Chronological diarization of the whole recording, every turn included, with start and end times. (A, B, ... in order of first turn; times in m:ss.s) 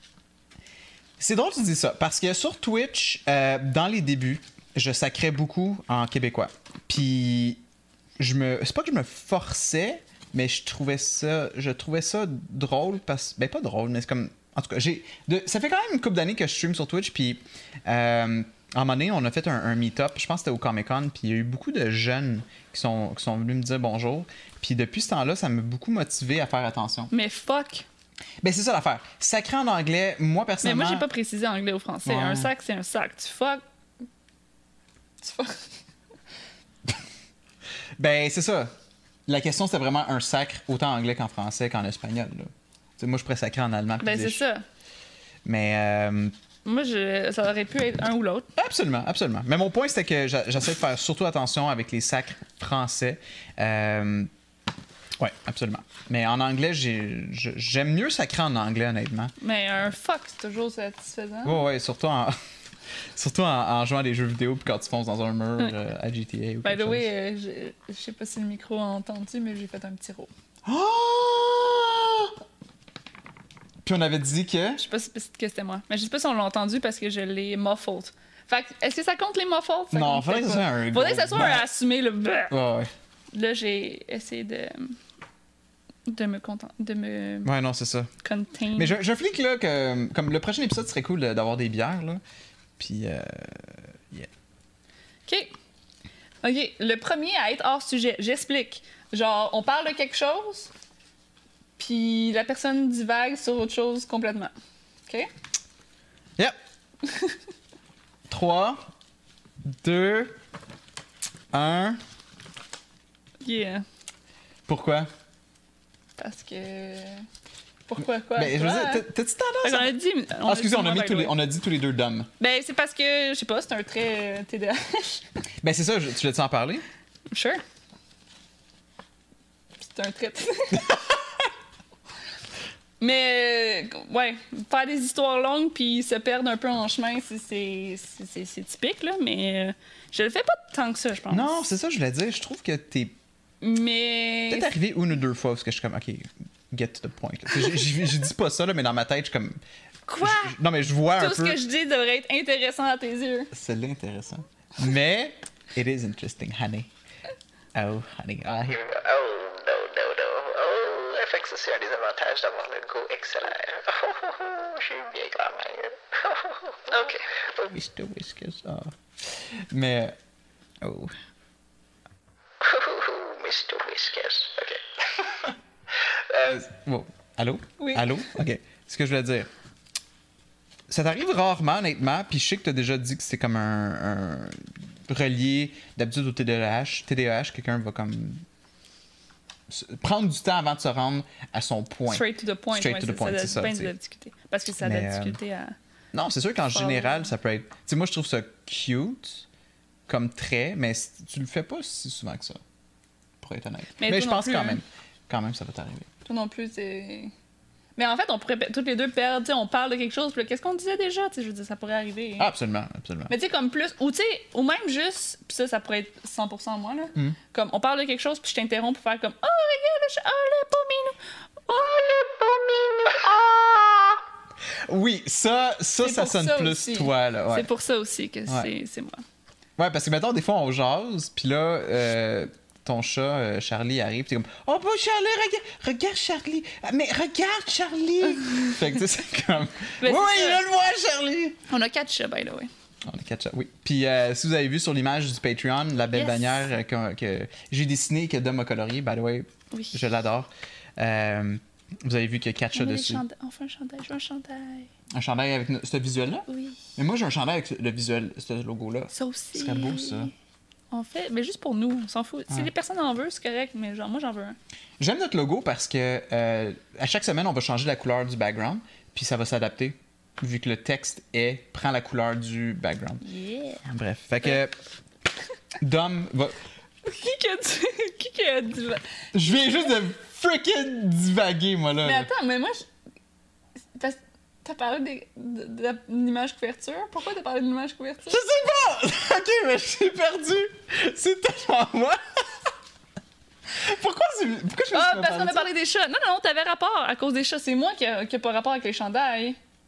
0:01.2-0:07.6 A
0:08.2-0:27.1 A
0:27.1-0:27.9 B
0:28.4-0:31.1 A
0:30.6-0:33.6 B
0:32.0-0:32.5 A
0:35.2-0:35.6 B
0:38.0-0:38.7 A
0:39.3-0:44.4 A
0:44.0-0:44.6 B
0:45.4-0:46.4 A
0:46.6-0:48.5 B
0:48.6-0:54.3 A
0:55.2-0:59.3 A
0:59.4-1:01.6 B
1:01.4-1:02.4 A
1:03.2-1:07.1 A
1:06.6-1:10.3 B
1:10.7-1:12.3 A
1:13.8-1:14.8 A
1:14.8-1:22.5 B
1:19.9-1:21.7 A
1:22.5-1:22.9 A
1:23.3-1:25.0 B
1:26.1-1:27.5 B
1:27.4-1:28.1 A
1:28.2-1:29.0 B
1:28.8-1:32.2 A
1:32.8-1:34.3 A
1:35.3-1:35.5 B
1:36.4-1:40.7 B
1:41.8-1:44.5 B
1:47.0-1:47.4 B
1:48.3-1:48.8 A
1:49.6-1:50.4 A
1:51.5-1:52.0 A
1:53.4-1:53.8 B
1:54.7-1:55.1 A
1:56.2-1:57.2 B
1:57.9-1:59.1 B
1:58.3-1:59.9 A
1:59.6-2:01.4 B
2:00.4-2:02.3 A
2:02.4-2:05.3 B
2:05.6-2:06.8 A
2:07.3-2:07.6 B
2:09.8-2:10.9 B
2:10.7-2:11.2 A
2:13.0-2:21.6 B
2:21.3-2:23.2 A
2:23.6-2:24.7 B
2:24.5-2:29.6 A
2:30.1-2:30.6 B
2:30.2-2:31.6 A
2:31.1-2:33.5 B
2:33.5-2:36.9 A
2:37.8-2:38.8 A
2:38.7-2:47.7 C
2:47.7-2:50.2 A
2:50.8-2:51.2 A
2:52.6-2:54.8 C
2:56.4-2:59.5 A
2:57.8-2:58.2 B
3:00.9-3:08.4 A
3:09.7-3:13.9 A
3:12.1-3:15.8 B
3:14.8-3:15.4 A
3:16.1-3:19.5 A
3:16.7-3:17.3 B
3:20.1-3:22.6 A
3:23.4-3:26.1 A
3:24.0-3:24.8 B
3:26.3-3:27.3 B
3:28.0-3:32.5 B
3:32.4-3:33.3 A
3:33.3-3:42.6 B
3:42.7-3:43.1 C
3:44.8-3:47.7 A
3:46.0-3:49.2 B
3:49.8-4:01.6 A
3:58.4-3:58.7 B
4:00.0-4:00.6 B
4:01.7-4:02.7 B
4:03.0-4:13.2 A
4:06.1-4:06.7 B
4:12.7-4:14.9 B
4:15.1-4:20.3 A
4:16.5-4:16.8 B
4:19.1-4:20.3 B
4:20.9-4:24.6 B
4:25.0-4:33.3 A
4:33.3-4:33.8 B
4:33.8-4:34.8 A
4:35.8-4:36.6 A
4:37.0-4:39.7 B
4:39.3-4:42.3 A
4:42.0-4:42.9 B
4:43.9-4:48.4 B
4:48.3-4:52.4 A
4:53.7-4:55.7 A
4:54.9-4:59.6 B